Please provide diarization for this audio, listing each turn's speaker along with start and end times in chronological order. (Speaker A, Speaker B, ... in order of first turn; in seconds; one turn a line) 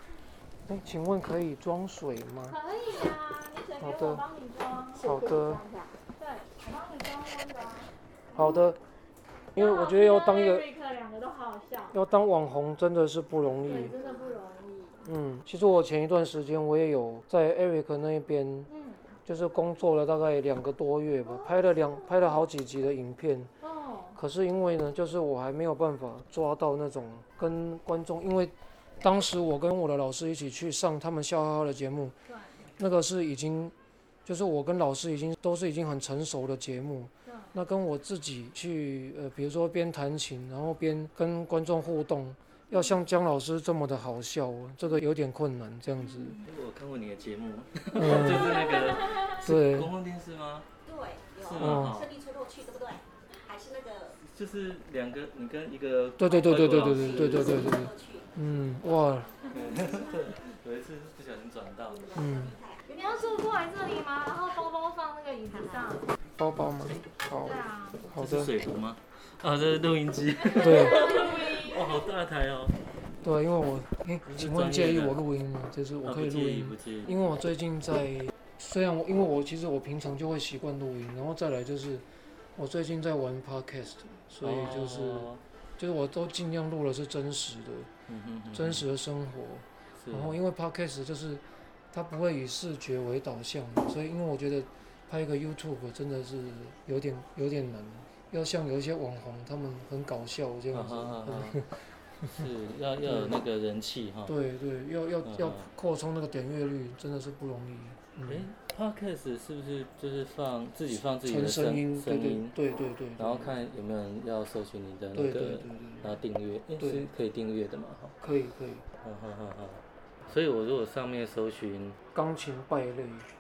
Speaker A: 0.7-2.6
Speaker B: 2.5-5.0
Speaker A: 3.8-4.3
Speaker C: 5.0-6.0
Speaker A: 5.0-5.6
Speaker B: 6.2-7.9
Speaker A: 8.3-8.8
Speaker A: 9.6-10.7
Speaker B: 9.6-12.0
Speaker A: 11.9-13.9
Speaker B: 13.7-15.0
Speaker C: 13.9-14.2
Speaker A: 15.0-18.7
Speaker B: 18.7-19.0
Speaker A: 19.3-23.5
Speaker B: 21.3-21.8
Speaker B: 23.6-24.2
Speaker A: 24.1-32.1
Speaker B: 32.3-32.6
Speaker A: 32.8-33.7
Speaker A: 34.2-46.4
Speaker B: 37.3-37.5
Speaker D: 46.4-50.7
Speaker A: 47.9-48.6
Speaker A: 49.4-49.9
Speaker C: 50.9-54.1
Speaker D: 51.4-52.2
Speaker A: 51.6-52.0
Speaker D: 54.2-57.7
Speaker A: 56.2-59.4
Speaker C: 57.7-58.1
Speaker D: 59.5-62.2
Speaker A: 62.1-62.6
Speaker C: 62.2-62.8
Speaker B: 62.9-66.1
Speaker A: 66.4-68.5
Speaker B: 67.4-68.1
Speaker D: 68.1-72.8
Speaker B: 70.5-71.9
Speaker A: 70.6-71.1
Speaker A: 73.2-82.0
Speaker D: 74.2-75.2
Speaker D: 76.0-77.1
Speaker A: 82.6-87.9
Speaker D: 84.4-85.4
Speaker D: 88.1-88.8
Speaker A: 88.5-102.5
Speaker D: 90.0-90.4
Speaker D: 100.7-101.6
Speaker D: 102.3-104.4
Speaker A: 103.0-103.4
Speaker A: 104.3-108.5
Speaker D: 105.2-105.7
Speaker D: 108.3-112.6
Speaker A: 111.2-113.6
Speaker D: 113.2-118.2
Speaker A: 115.1-116.2
Speaker A: 116.8-117.1
Speaker A: 118.2-118.8
Speaker D: 119.0-122.0
Speaker A: 122.1-123.3